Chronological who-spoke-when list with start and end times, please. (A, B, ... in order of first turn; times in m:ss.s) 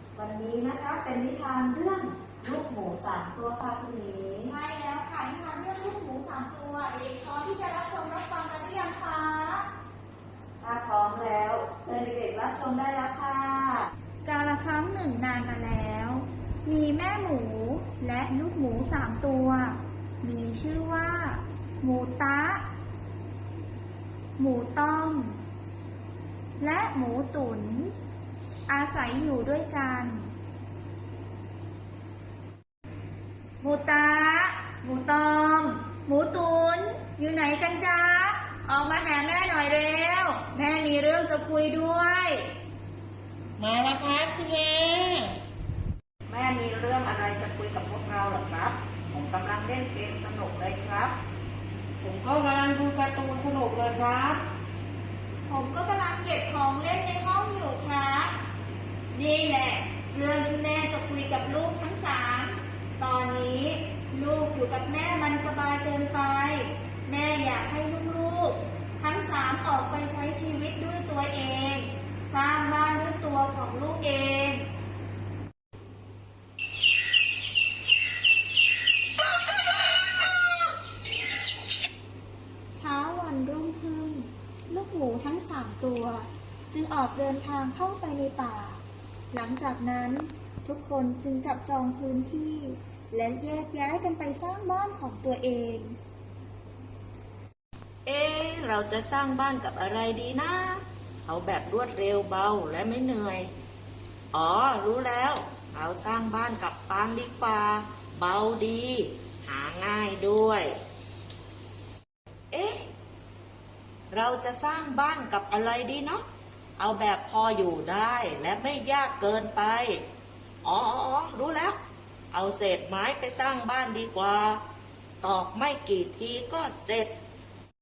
0:00.1-0:04.5 A
0:04.5-0:09.6 B
0:10.6-0:13.9 A
0:14.2-0:22.6 B
0:24.4-0:25.4 B
0:26.6-0:27.9 B
0:28.7-0:30.3 B
0:33.6-0:42.5 B
0:43.6-0:45.3 C
0:46.3-0:51.1 A
0:52.0-0:54.4 C
0:55.5-0:58.3 B
0:59.1-1:14.6 B
1:22.7-1:28.8 B
1:29.3-1:36.0 B
1:38.0-1:43.5 A
1:44.3-1:50.7 A
1:52.5-1:52.9 A
1:54.1-1:56.2 A
1:56.8-2:00.0 A
2:00.6-2:01.8 A
2:02.3-2:04.6 A
2:05.2-2:07.1 A